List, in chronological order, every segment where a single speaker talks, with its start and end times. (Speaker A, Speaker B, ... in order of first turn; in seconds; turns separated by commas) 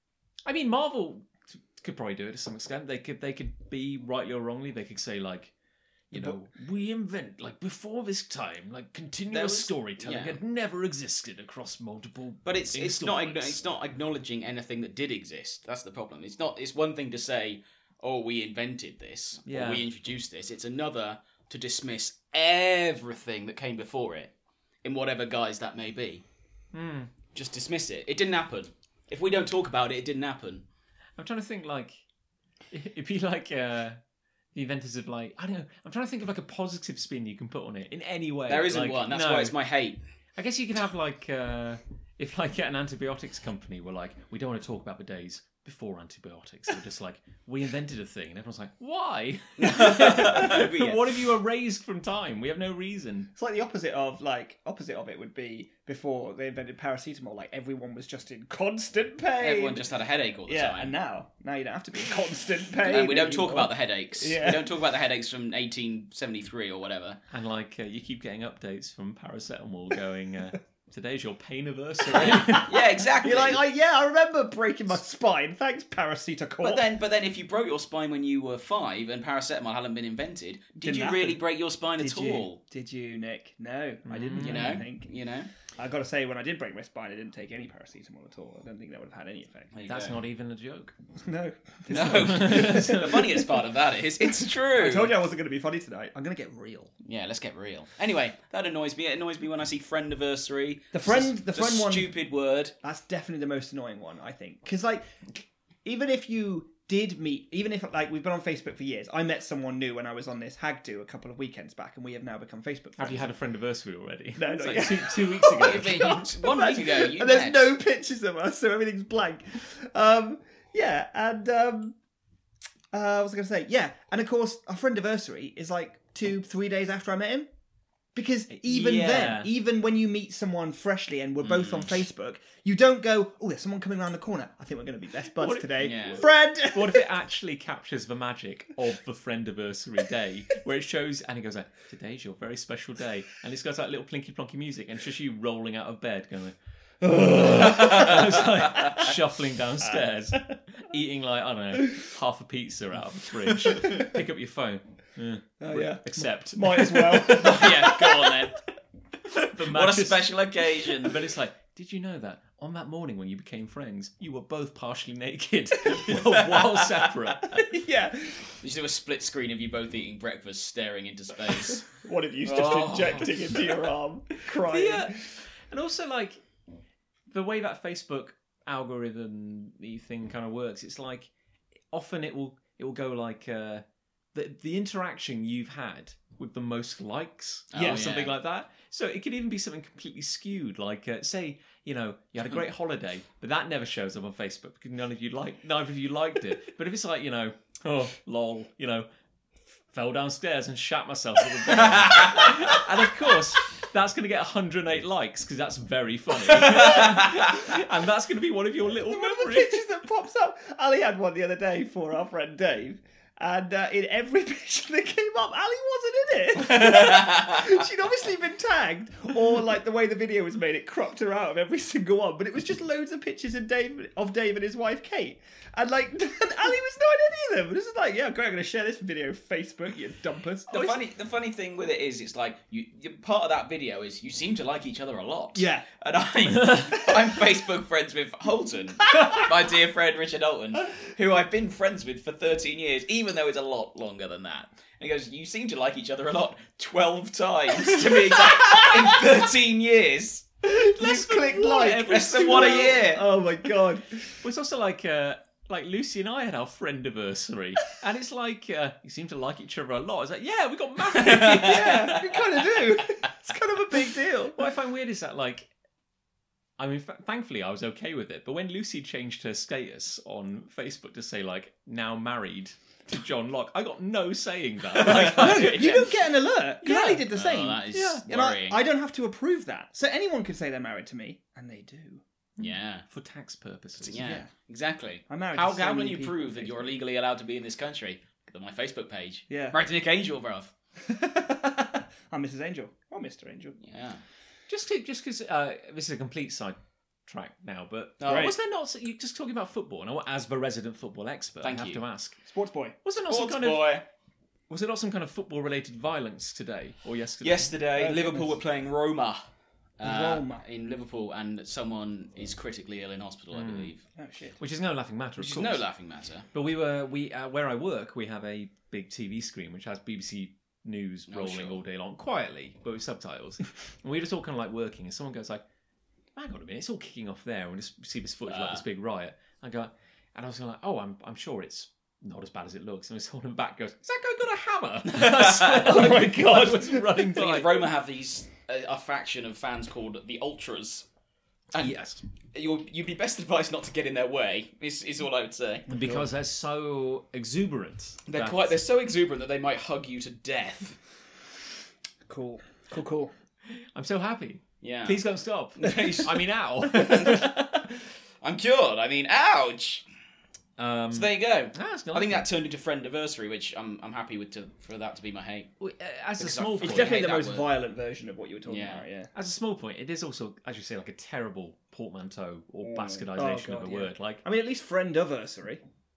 Speaker A: 0.5-5.5, Speaker A: 6.1-13.6, Speaker B: 9.3-10.4, Speaker B: 12.4-24.3, Speaker A: 19.4-19.8, Speaker B: 24.8-26.2, Speaker A: 26.7-27.1, Speaker B: 27.3-30.7, Speaker A: 31.2-32.0, Speaker A: 32.7-34.0, Speaker A: 34.5-39.5, Speaker B: 38.5-40.0, Speaker A: 40.4-53.3, Speaker B: 49.6-51.1, Speaker C: 53.4-59.8, Speaker B: 59.4-60.9, Speaker C: 60.5-64.7, Speaker B: 62.8-67.2, Speaker A: 67.3-72.7, Speaker B: 72.1-73.6, Speaker C: 72.2-76.8, Speaker B: 76.6-82.6, Speaker C: 80.8-81.4, Speaker C: 82.0-85.1, Speaker A: 84.0-84.8, Speaker B: 84.4-85.5, Speaker C: 85.8-89.7, Speaker B: 89.7-90.2, Speaker A: 89.8-90.9, Speaker C: 91.2-92.9, Speaker B: 91.9-95.1, Speaker A: 91.9-93.4, Speaker C: 94.7-96.9, Speaker B: 97.0-102.7, Speaker C: 100.9-102.1, Speaker C: 102.8-105.3, Speaker C: 105.8-113.3, Speaker A: 113.0-116.2, Speaker C: 114.4-121.9, Speaker B: 115.6-117.7, Speaker C: 122.9-127.5, Speaker C: 128.1-137.1, Speaker A: 128.5-129.5, Speaker B: 131.4-132.0, Speaker A: 135.3-158.3, Speaker B: 135.8-136.2, Speaker C: 147.1-147.9, Speaker C: 150.3-150.6, Speaker C: 155.6-158.3, Speaker B: 157.2-158.5, Speaker A: 159.3-160.3, Speaker B: 159.6-161.2, Speaker A: 160.9-167.7, Speaker C: 167.5-168.6, Speaker B: 168.6-171.8, Speaker C: 171.9-175.4, Speaker B: 172.4-173.2, Speaker A: 172.5-173.3, Speaker A: 174.5-176.4, Speaker A: 177.3-181.3, Speaker A: 181.9-199.1, Speaker B: 187.7-188.3, Speaker C: 187.8-188.0, Speaker A: 199.9-209.8, Speaker B: 202.1-202.6, Speaker B: 206.7-207.1, Speaker C: 208.9-231.0, Speaker B: 216.6-217.6, Speaker B: 230.7-250.5, Speaker C: 235.5-235.9, Speaker C: 250.6-254.3, Speaker A: 250.9-253.0, Speaker B: 251.8-253.2, Speaker A: 254.4-262.4, Speaker B: 261.1-261.9, Speaker C: 261.3-264.6, Speaker A: 264.5-265.7, Speaker A: 266.8-276.0, Speaker B: 274.9-276.1, Speaker C: 275.1-282.2, Speaker A: 276.8-277.2, Speaker B: 277.3-278.8, Speaker B: 282.6-283.1, Speaker A: 282.6-284.3, Speaker B: 284.0-290.7, Speaker C: 284.1-284.5, Speaker C: 285.3-286.7, Speaker C: 289.5-289.8, Speaker C: 291.0-293.8, Speaker B: 293.8-294.2, Speaker A: 294.7-302.4, Speaker B: 298.2-298.5, Speaker B: 301.6-302.0, Speaker C: 302.5-302.9, Speaker A: 303.0-304.0, Speaker B: 303.3-304.1, Speaker A: 304.7-307.7, Speaker B: 307.4-309.4, Speaker C: 307.9-308.6, Speaker B: 310.0-314.0, Speaker C: 310.0-310.6, Speaker A: 313.5-313.9, Speaker C: 314.1-314.6, Speaker A: 314.6-315.8, Speaker B: 315.4-316.5, Speaker A: 316.5-325.6, Speaker B: 321.3-321.8, Speaker A: 326.3-337.9, Speaker B: 328.5-328.8, Speaker B: 335.1-336.0, Speaker C: 335.7-337.2, Speaker B: 337.3-341.1, Speaker A: 341.8-342.2, Speaker B: 342.5-345.9, Speaker A: 345.9-348.8, Speaker C: 345.9-346.2, Speaker B: 348.2-351.0, Speaker C: 352.3-353.3, Speaker A: 353.7-357.7, Speaker B: 354.8-355.2, Speaker B: 355.8-356.3, Speaker C: 355.9-356.2, Speaker B: 356.9-357.5, Speaker C: 357.1-357.4, Speaker B: 358.4-360.0, Speaker A: 360.8-362.5, Speaker B: 361.1-365.7, Speaker A: 365.8-367.2, Speaker B: 366.4-367.7, Speaker C: 366.8-369.3, Speaker B: 368.6-369.0, Speaker A: 369.3-374.4, Speaker C: 372.9-375.8